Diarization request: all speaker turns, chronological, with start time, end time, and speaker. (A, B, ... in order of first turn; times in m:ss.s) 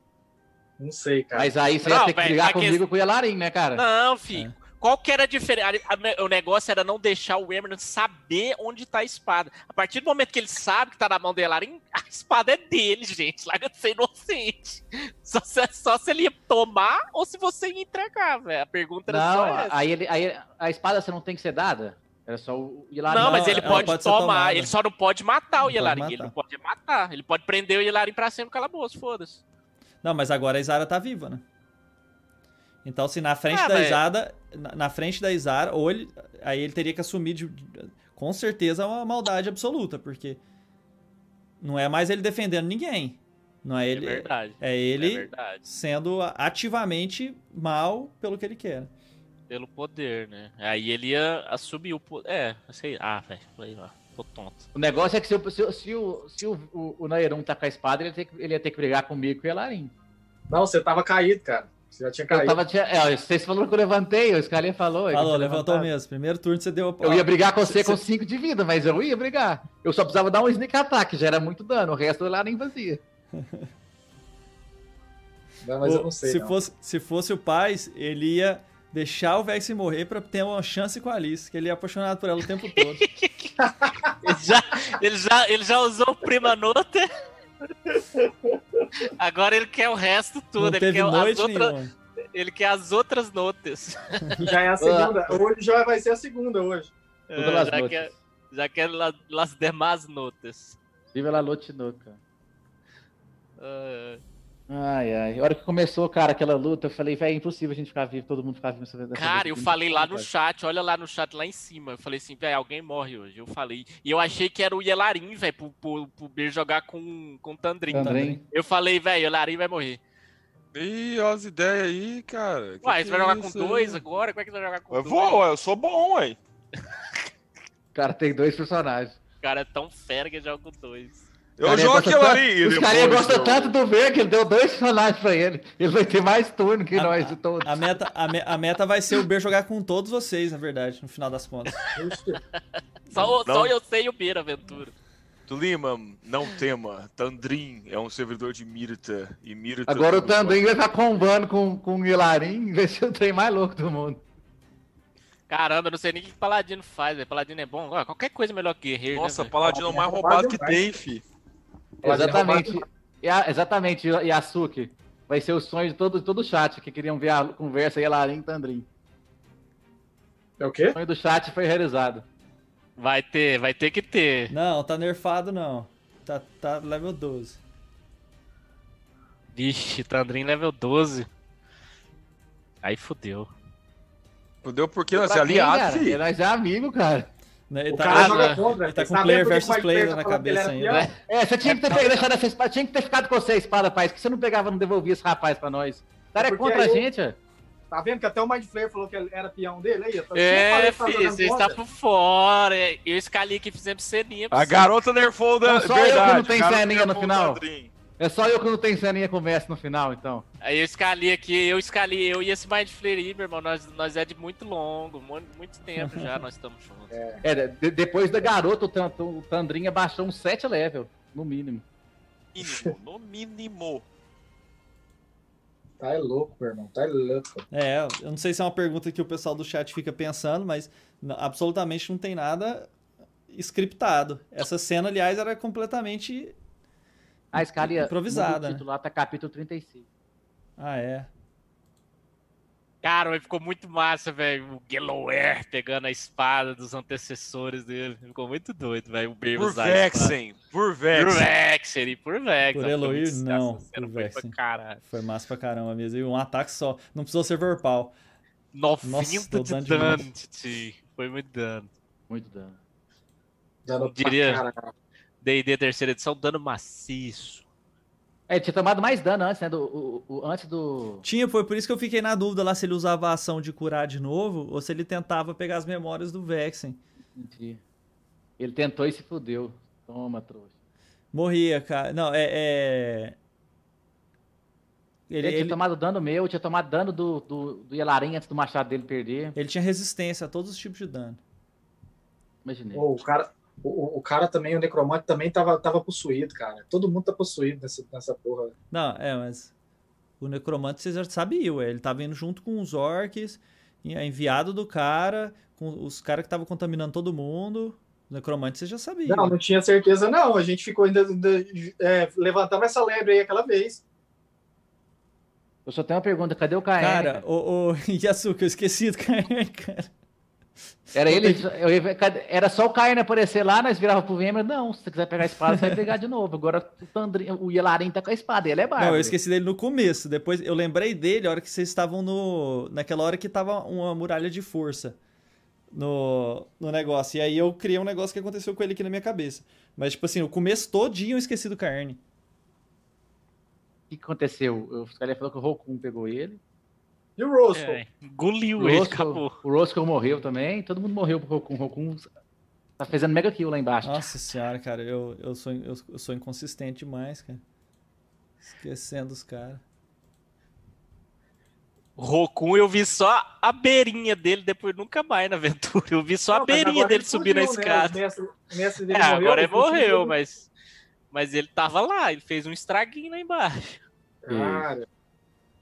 0:00.8-0:01.5 A
0:01.3-0:03.8 B
0:01.8-0:02.8 C
0:03.8-0:19.8 C
0:19.1-0:24.0 B
0:23.0-0:29.4 C
0:23.2-0:24.7 D
0:25.6-0:26.3 D
0:30.0-0:31.4 D
0:32.8-0:40.4 D
0:33.5-0:34.0 C
0:41.6-0:48.9 D
0:43.9-0:45.6 C
0:49.5-0:54.6 C
0:54.7-0:59.9 B
1:00.5-1:02.6 A
1:02.3-1:05.9 B
1:05.1-1:08.0 D
1:07.0-1:13.0 B
1:13.3-1:13.7 D
1:15.6-1:16.5 A
1:15.8-1:23.0 D
1:22.8-1:23.5 C
1:23.6-1:24.2 A
1:24.2-1:27.1 C
1:28.0-1:28.6 A
1:29.0-1:31.7 C
1:30.6-1:31.9 D
1:32.3-1:34.4 C
1:34.4-1:36.9 A
1:34.8-1:35.4 B
1:37.3-1:40.8 C
1:37.4-1:38.1 B
1:41.1-1:42.2 B
1:43.6-1:44.2 C
1:44.7-1:50.3 B
1:49.1-2:00.0 C
1:57.9-1:58.4 B
1:57.9-1:58.4 D
2:00.7-2:04.0 E
2:02.8-2:05.4 C
2:04.9-2:06.4 E
2:07.9-2:09.2 B
2:09.4-2:11.2 C
2:11.6-2:13.8 E
2:11.6-2:18.0 B
2:16.9-2:21.8 D
2:21.9-2:22.4 A
2:23.1-2:24.9 C
2:23.2-2:23.7 E
2:25.5-2:30.6 E
2:29.9-2:34.2 B
2:35.5-2:39.5 C
2:39.1-2:41.2 E
2:39.6-2:40.8 A
2:42.0-2:48.9 B
2:42.0-2:42.8 A
2:50.6-2:51.0 A
2:50.9-2:52.2 B
2:53.0-2:54.5 C
2:54.5-2:57.6 D
2:59.5-3:01.3 C
3:02.8-3:03.5 C
3:04.6-3:06.2 E
3:05.1-3:07.3 B
3:07.7-3:11.1 D
3:07.9-3:11.1 A
3:08.1-3:08.6 C
3:10.8-3:11.2 C
3:11.3-3:17.4 B
3:16.4-3:17.0 A
3:17.9-3:21.8 A
3:20.3-3:24.8 C
3:24.5-3:27.9 E
3:25.6-3:27.6 B
3:28.2-3:30.4 B
3:30.6-3:37.1 C
3:36.0-3:36.3 D
3:37.1-3:37.4 A
3:37.4-3:41.8 B
3:42.5-3:44.0 E
3:42.6-3:42.9 A
3:46.0-3:47.6 A
3:47.7-3:52.9 D
3:53.5-3:56.6 D
3:57.5-3:58.8 D
3:57.5-4:00.0 B
4:00.8-4:01.3 D
4:03.0-4:10.4 C
4:09.5-4:11.5 E
4:11.1-4:15.0 C
4:12.7-4:14.6 D
4:15.1-4:18.1 D
4:18.7-4:21.9 C
4:19.0-4:20.3 D
4:22.3-4:22.8 B
4:23.8-4:24.9 A
4:24.0-4:24.6 C
4:25.4-4:27.6 C
4:28.5-4:31.2 B
4:31.2-4:37.0 D
4:37.4-4:37.8 B
4:38.6-4:40.7 B
4:41.3-4:43.4 D
4:45.3-4:45.8 D
4:45.4-4:49.6 B
4:49.5-4:51.4 D
4:52.6-4:53.0 B
4:52.9-4:58.7 A
4:58.9-4:59.7 D
5:00.4-5:09.6 D
5:09.3-5:14.0 A
5:15.8-5:17.4 B
5:17.0-5:20.1 D
5:21.1-5:21.7 D
5:21.1-5:29.3 B
5:25.7-5:26.1 D
5:29.0-5:35.2 D
5:35.9-5:42.2 D
5:44.1-5:46.6 B
5:47.4-5:48.0 A
5:47.7-5:49.6 C
5:48.8-5:52.3 B
5:53.0-5:54.2 B
5:54.0-5:57.6 D
5:58.7-5:59.8 D
6:02.2-6:08.2 C
6:06.5-6:10.3 A
6:09.1-6:10.7 C
6:11.3-6:14.0 C
6:14.4-6:15.0 A
6:14.5-6:14.9 B